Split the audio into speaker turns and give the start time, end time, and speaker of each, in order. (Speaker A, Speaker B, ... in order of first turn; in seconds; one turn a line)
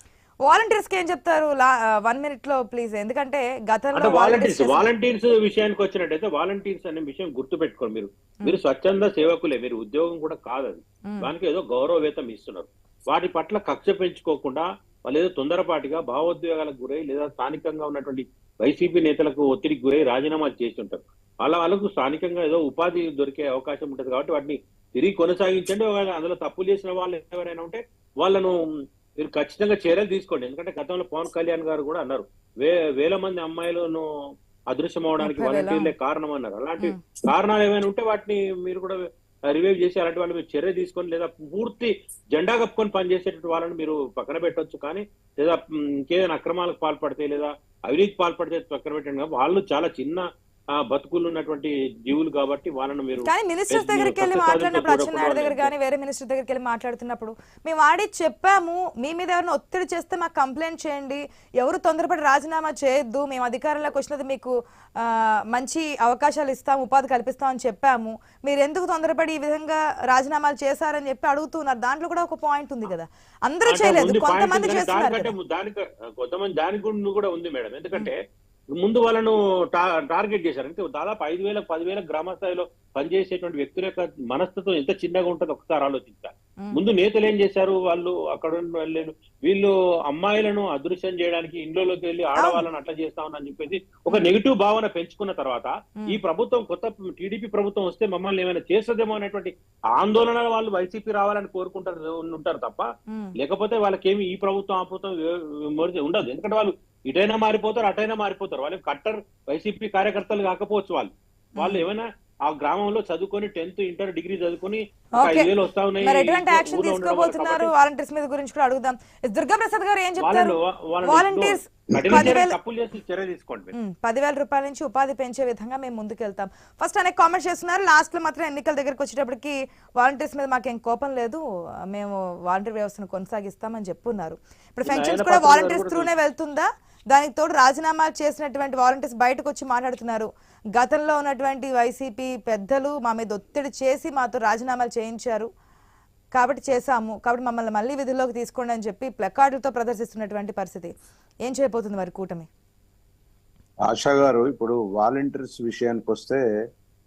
Speaker A: 0.5-4.9
Speaker B: 3.9-28.6
Speaker B: 29.2-34.0
Speaker B: 34.7-50.2
Speaker A: 35.2-35.9
Speaker B: 50.8-55.7
Speaker A: 53.2-75.3
Speaker B: 73.7-78.2
Speaker B: 78.7-117.7
Speaker A: 92.4-92.6
Speaker A: 111.6-111.8
Speaker A: 115.2-115.5
Speaker A: 116.0-122.6
Speaker B: 120.2-123.7
Speaker C: 122.0-122.3
Speaker A: 123.7-131.4
Speaker A: 131.9-145.5
Speaker B: 134.8-136.1
Speaker A: 146.3-150.9
Speaker A: 151.4-152.5
Speaker C: 153.8-156.4